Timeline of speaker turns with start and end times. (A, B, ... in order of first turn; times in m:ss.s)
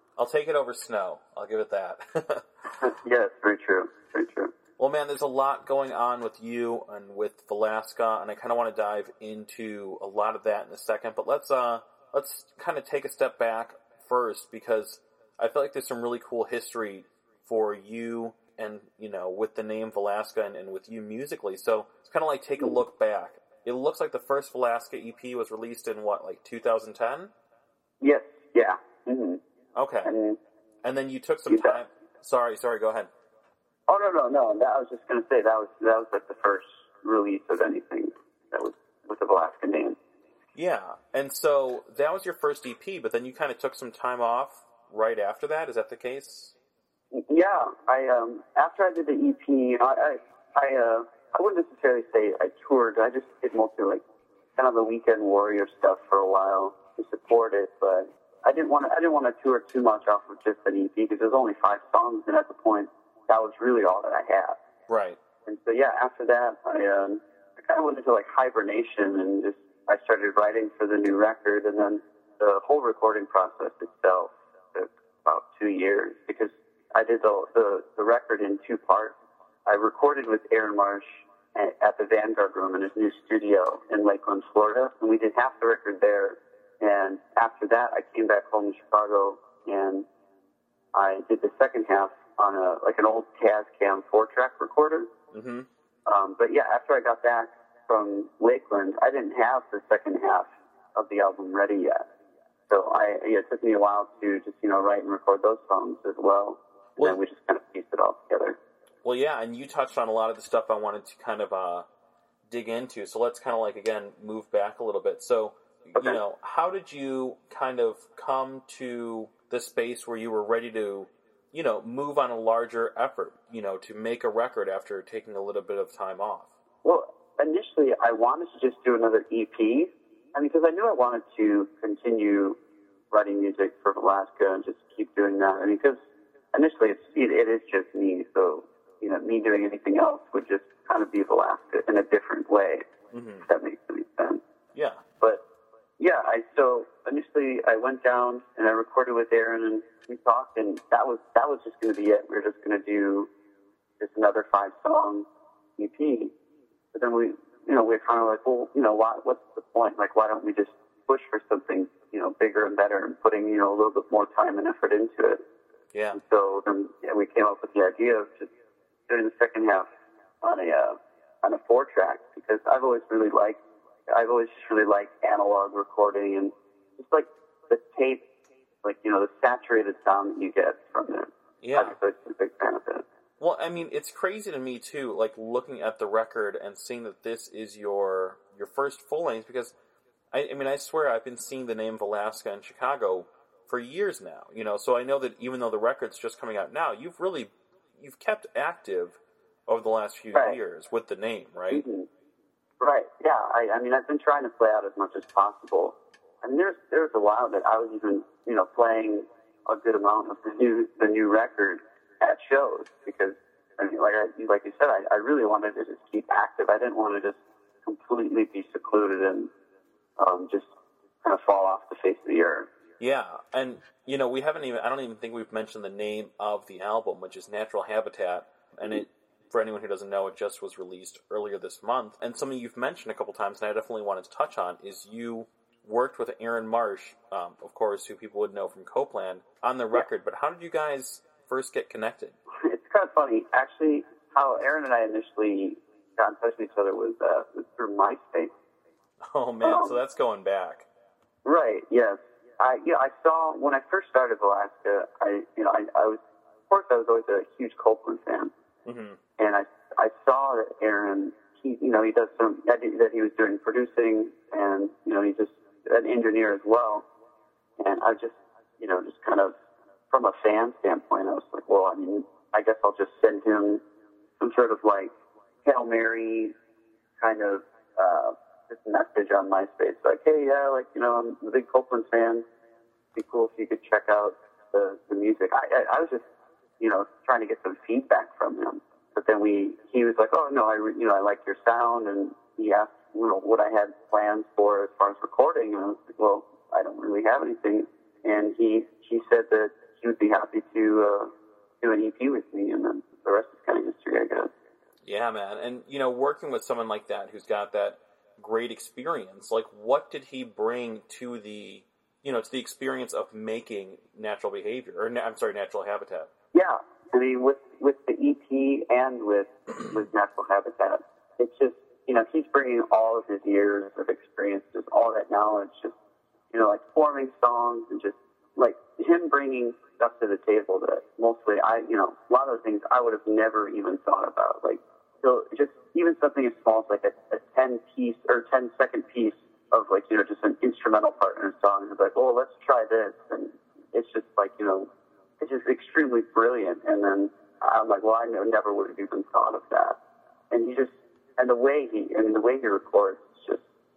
0:00.2-0:02.4 A
0:02.8-0:04.5 B
0:04.8-0:27.3 A
0:28.0-0:29.4 B
0:29.8-0:30.1 A
0:30.0-0:30.4 B
0:30.8-0:33.1 A
0:31.5-0:31.8 B
0:33.9-0:40.0 B
0:40.5-0:46.5 A
0:47.1-0:54.0 B
0:54.6-1:04.6 B
1:04.9-1:05.2 A
1:05.4-1:30.0 B
1:30.9-1:35.1 B
1:35.3-1:35.7 A
1:36.0-1:42.0 B
1:42.7-1:48.6 B
1:49.0-1:51.9 A
1:52.5-2:06.5 A
2:06.8-2:12.6 B
2:13.1-2:16.0 B
2:16.5-2:22.8 B
2:23.1-2:23.5 A
2:23.4-2:24.4 B
2:24.7-2:25.0 A
2:26.0-2:33.3 B
2:34.0-2:35.2 B
2:35.8-2:36.3 B
2:36.9-2:45.4 B
2:45.9-2:46.2 A
2:46.1-2:48.5 B
2:49.1-2:49.9 B
2:50.4-2:58.2 B
2:58.8-3:03.0 B
3:01.6-3:02.0 A
3:03.4-3:09.7 A
3:10.3-3:21.8 A
3:21.7-3:22.1 B
3:22.8-3:39.5 B
3:40.2-3:40.7 B
3:41.2-3:42.7 B
3:43.0-4:02.4 A
4:02.6-4:08.5 B
4:09.3-4:10.9 A
4:09.6-4:10.0 B
4:11.4-4:18.5 B
4:18.8-4:19.2 A
4:19.4-4:27.0 B
4:27.8-4:29.5 B
4:30.1-4:33.8 B
4:34.4-4:35.1 B
4:35.6-4:36.5 B
4:37.2-4:42.4 B
4:43.1-4:46.2 B
4:46.8-5:01.3 B
5:01.8-5:04.5 B
5:05.0-5:16.3 A
5:16.5-5:25.9 B
5:26.5-5:44.9 B
5:45.4-5:50.0 B
5:50.5-5:53.6 B